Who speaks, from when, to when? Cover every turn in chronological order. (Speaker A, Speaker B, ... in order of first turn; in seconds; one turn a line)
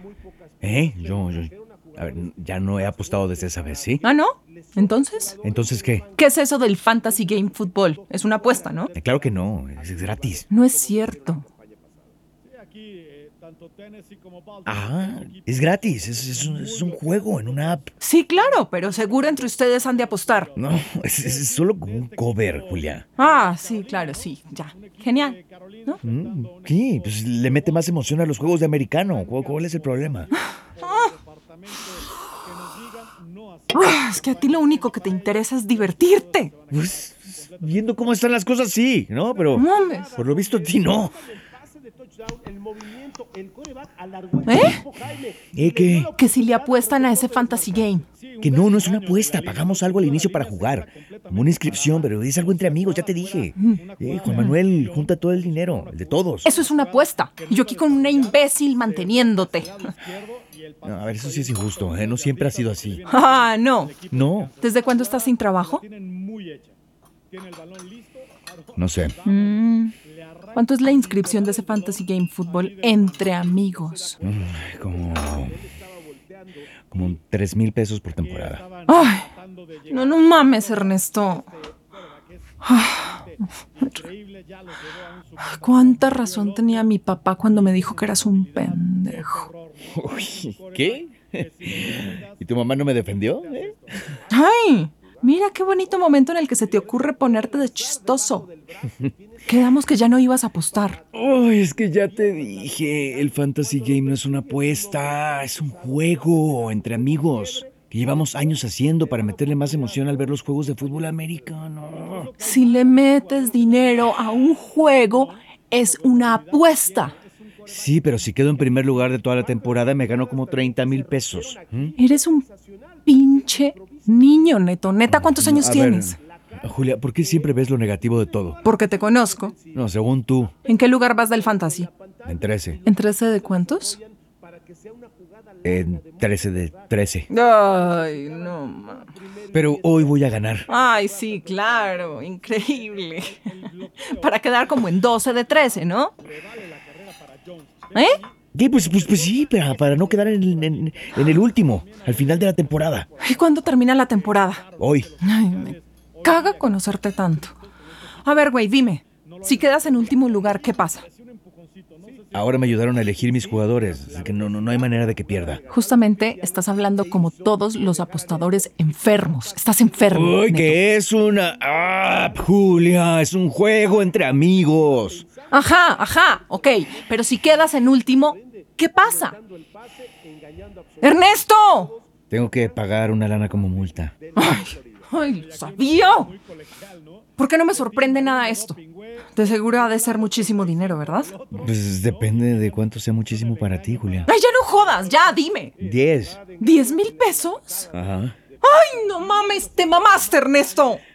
Speaker A: 0.6-4.0
Speaker B: 4.0-5.4
Speaker A: 5.4-6.1
Speaker B: 6.2-8.9
Speaker A: 8.9-10.5
Speaker B: 10.5-11.5
Speaker A: 14.7-17.9
Speaker B: 18.0-20.5
Speaker A: 20.6-23.1
Speaker B: 23.2-26.0
Speaker A: 26.0-30.3
Speaker B: 30.8-31.1
Speaker B: 33.7-36.5
Speaker A: 36.7-41.2
Speaker B: 39.5-40.1
Speaker B: 44.5-44.8
Speaker A: 45.5-46.1
Speaker B: 46.2-48.0
Speaker A: 48.4-56.5
Speaker B: 53.6-54.6
Speaker B: 56.5-59.8
Speaker A: 60.8-63.0
Speaker B: 63.1-64.0
Speaker A: 64.1-64.5
Speaker B: 64.6-65.8
Speaker A: 68.8-69.1
Speaker B: 69.2-69.9
Speaker B: 70.5-74.2
Speaker A: 74.2-75.6
Speaker A: 76.9-78.7
Speaker B: 78.9-79.3
Speaker B: 79.9-81.5
Speaker B: 82.6-83.3
Speaker B: 83.8-84.0
Speaker B: 85.4-89.5
Speaker A: 89.9-93.8
Speaker B: 94.3-98.5
Speaker B: 99.5-101.0
Speaker A: 101.1-112.3
Speaker B: 112.4-117.2
Speaker A: 117.7-122.0
Speaker B: 122.0-122.5
Speaker B: 123.0-126.2
Speaker A: 125.1-128.6
Speaker B: 128.6-129.6
Speaker A: 129.7-130.5
Speaker B: 130.7-131.9
Speaker A: 132.2-132.8
Speaker B: 132.8-134.0
Speaker A: 135.6-137.3
Speaker B: 137.3-139.1
Speaker A: 139.5-140.7
Speaker B: 140.7-146.1
Speaker B: 147.9-148.2
Speaker A: 148.5-153.1
Speaker B: 153.2-154.6
Speaker A: 154.8-155.1
Speaker B: 155.2-157.6
Speaker B: 158.2-161.1
Speaker A: 162.3-165.6
Speaker B: 165.7-170.8
Speaker A: 170.1-175.3
Speaker B: 175.5-179.4
Speaker B: 181.0-182.0
Speaker A: 182.3-184.1
Speaker B: 184.4-186.3
Speaker B: 187.4-188.8
Speaker B: 189.3-191.3
Speaker A: 191.5-194.3
Speaker B: 194.3-195.7
Speaker A: 195.8-196.4
Speaker B: 196.6-197.9
Speaker A: 197.9-198.3
Speaker B: 198.6-201.0